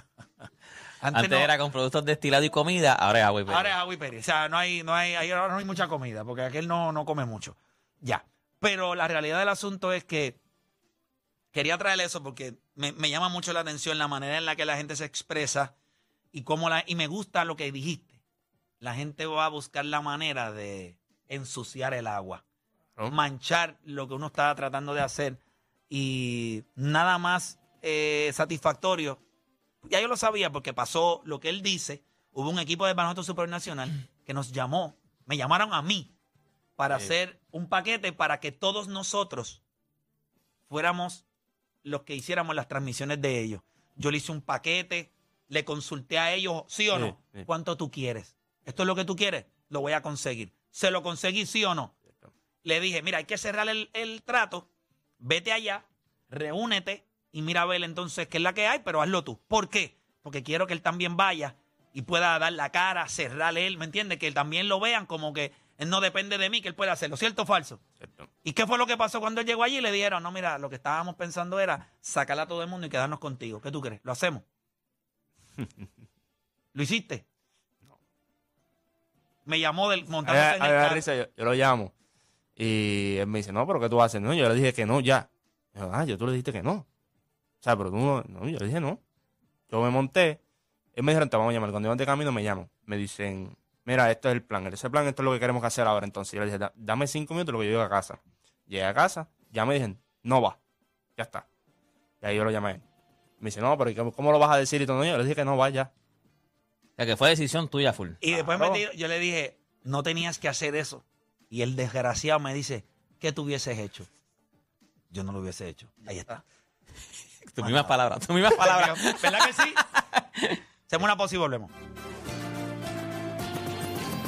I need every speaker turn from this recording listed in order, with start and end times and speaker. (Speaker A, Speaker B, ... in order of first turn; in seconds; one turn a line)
Speaker A: 1.0-1.5
Speaker B: 1.1-3.8
Speaker A: 3.5-10.4
Speaker A: 11.5-15.7
Speaker A: 16.3-18.2
Speaker A: 18.8-22.4
Speaker A: 23.1-29.2
Speaker A: 29.8-36.1
Speaker A: 36.8-39.6
Speaker A: 40.7-41.2
Speaker A: 41.8-51.9
Speaker C: 46.9-47.5
Speaker A: 52.6-54.7
Speaker A: 55.2-67.8
Speaker C: 68.0-68.3
Speaker A: 68.4-74.4
Speaker C: 75.6-75.9
Speaker A: 76.7-77.2
Speaker A: 79.5-81.0
Speaker C: 80.2-81.9
Speaker C: 82.6-86.8
Speaker C: 87.6-89.0
Speaker C: 89.7-90.4
Speaker C: 90.9-100.6
Speaker C: 101.2-101.5
Speaker C: 102.2-102.8
Speaker C: 103.4-105.9
Speaker B: 107.0-108.2
Speaker A: 108.2-114.1
Speaker C: 108.3-108.8
Speaker A: 115.1-116.4
Speaker B: 117.5-120.6
Speaker A: 117.6-117.9
Speaker A: 118.5-119.8
Speaker A: 120.9-121.7